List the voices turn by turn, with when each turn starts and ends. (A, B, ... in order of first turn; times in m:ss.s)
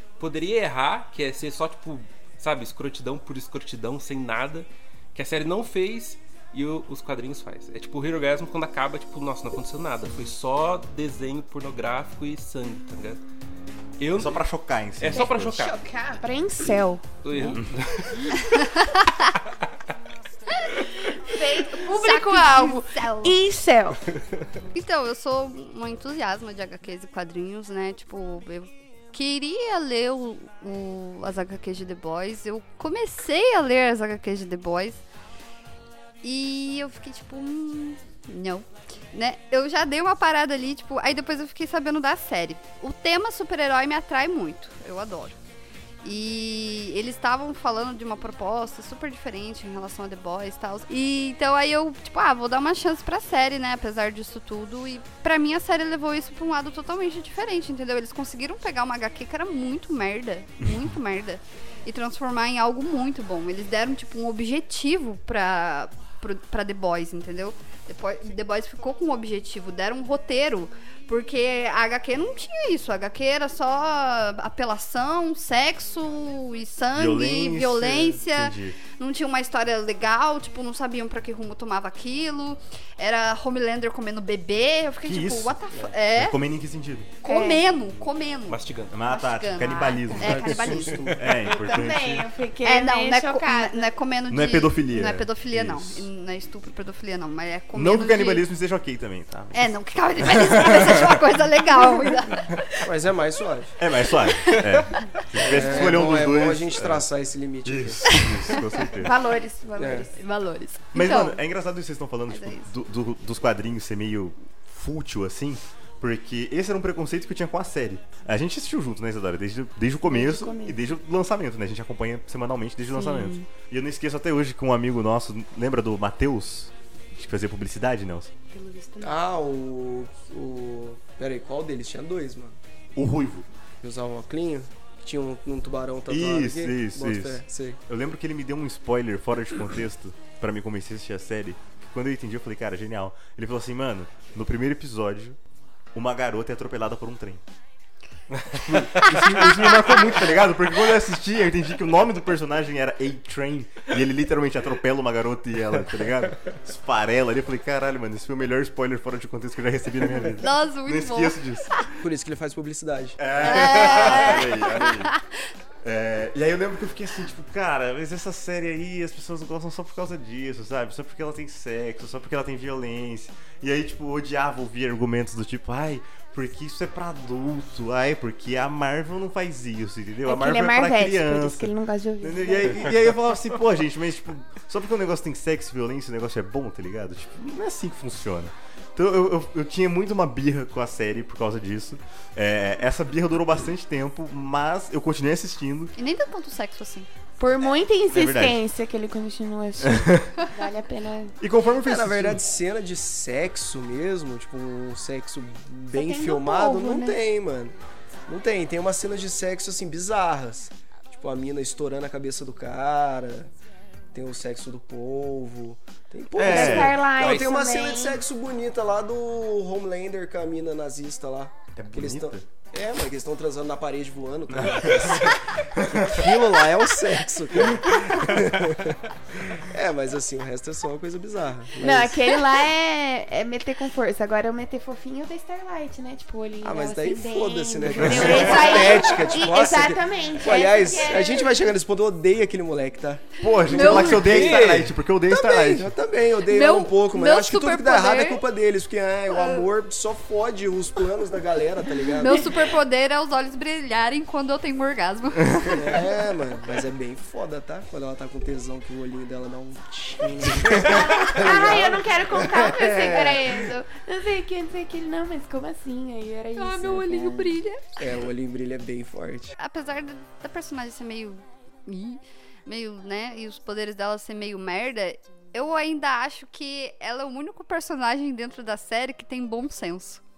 0:00.2-0:13.2 A
0:14.0-0:15.8 A
0:14.1-0:15.7 B
0:15.1-0:17.6 C
0:17.2-0:18.7 A
0:18.5-0:19.3 D
0:21.1-0:24.0 C
0:21.3-0:23.4 D
0:24.7-0:35.0 D
0:36.2-0:45.4 D
0:46.0-1:26.4 D
1:16.9-1:18.8 B
1:25.0-1:27.2 B
1:27.2-1:31.2 D
1:27.2-1:27.6 C
1:28.5-1:29.0 A
1:28.9-1:32.3 B
1:30.1-1:31.5 E
1:31.4-1:33.9 C
1:32.6-1:38.5 D
1:34.3-1:36.1 B
1:37.7-1:41.2 B
1:39.5-1:42.6 D
1:42.8-1:43.7 E
1:43.8-1:47.1 B
1:44.1-1:45.0 D
1:45.4-1:48.2 E
1:47.6-1:49.2 B
1:48.2-1:48.5 D
1:49.0-1:51.1 C
1:49.8-1:50.1 E
1:50.9-1:51.4 D
1:50.9-2:08.3 B
1:52.3-1:52.6 D
2:00.0-2:00.8 C
2:02.9-2:03.5 C
2:08.5-2:09.2 C
2:09.0-2:12.6 E
2:13.0-2:13.5 B
2:13.8-2:17.8 E
2:16.1-2:25.4 B
2:25.9-2:27.4 B
2:28.5-2:41.7 B
2:28.7-2:29.0 A
2:40.4-2:41.8 D
2:42.0-2:44.0 E
2:43.2-2:45.1 B
2:43.4-2:45.2 D
2:45.8-3:15.9 B
3:00.2-3:03.0 C
3:16.0-3:17.1 D
3:17.4-3:21.4 C
3:18.1-3:18.6 B
3:19.9-3:20.3 B
3:21.4-3:22.4 B
3:21.8-3:27.8 E
3:25.9-3:27.2 C
3:28.3-3:33.5 E
3:34.1-3:52.4 E
3:36.4-3:37.1 B
3:36.4-3:38.2 C
3:37.2-3:37.4 A
3:41.8-3:42.4 B
3:44.5-3:46.3 B
3:51.8-4:01.6 C
3:56.6-4:12.5 E
3:58.0-3:58.7 B
4:03.4-4:05.9 B
4:03.7-4:04.2 D
4:04.2-4:04.8 A
4:06.4-4:08.4 D
4:12.2-4:16.0 D
4:15.6-4:23.7 E
4:20.8-4:27.6 C
4:26.6-4:27.9 D
4:28.0-4:29.6 E
4:29.6-4:40.2 D